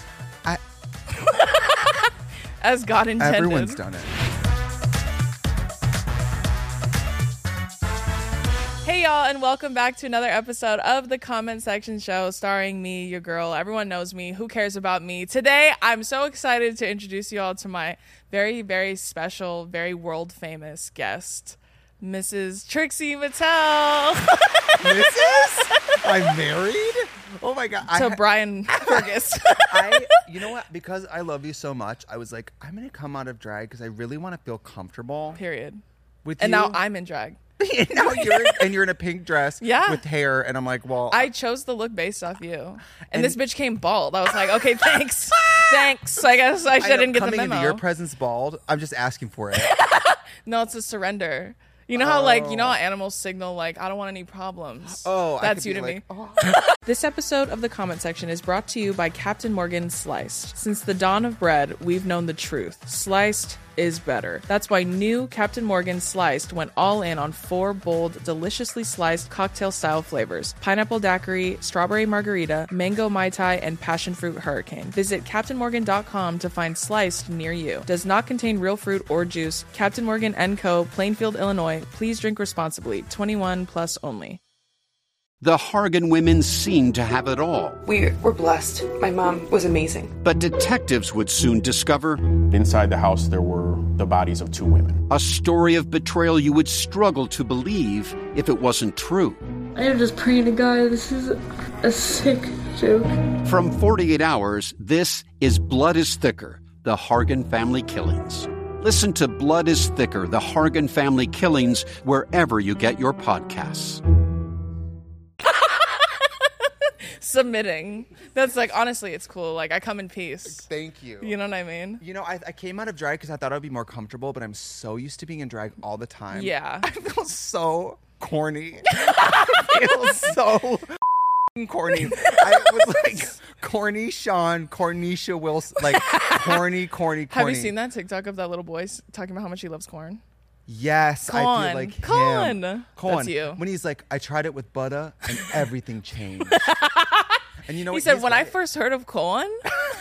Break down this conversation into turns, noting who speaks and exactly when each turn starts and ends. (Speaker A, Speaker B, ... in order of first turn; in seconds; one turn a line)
Speaker A: 1.1-3.8
Speaker B: 3.2-4.1
Speaker A: 8.8-25.1
Speaker B: 24.8-35.4
Speaker A: 27.9-30.2
Speaker A: 35.3-35.8
Speaker B: 36.2-36.8
Speaker A: 36.4-37.4
Speaker B: 37.6-41.3
Speaker A: 38.0-38.7
Speaker A: 39.6-40.0
Speaker A: 41.1-47.8
Speaker B: 43.1-43.4
Speaker B: 46.8-49.8
Speaker A: 49.6-56.0
Speaker B: 51.9-52.8
Speaker B: 54.9-56.5
Speaker A: 56.6-84.4
Speaker C: 85.4-87.8
Speaker D: 87.8-90.1
Speaker C: 90.2-92.2
Speaker E: 92.4-95.0
Speaker C: 95.1-99.4
Speaker F: 99.7-103.1
Speaker C: 103.4-114.0
Speaker A: 117.0-120.7
Speaker B: 120.5-121.3
Speaker A: 121.2-122.0
Speaker B: 122.0-137.7
Speaker A: 126.3-126.9
Speaker A: 129.0-129.6
Speaker A: 136.1-136.5
Speaker A: 137.3-140.2
Speaker B: 140.7-146.7
Speaker A: 141.3-143.6
Speaker A: 146.5-149.7
Speaker B: 147.6-148.6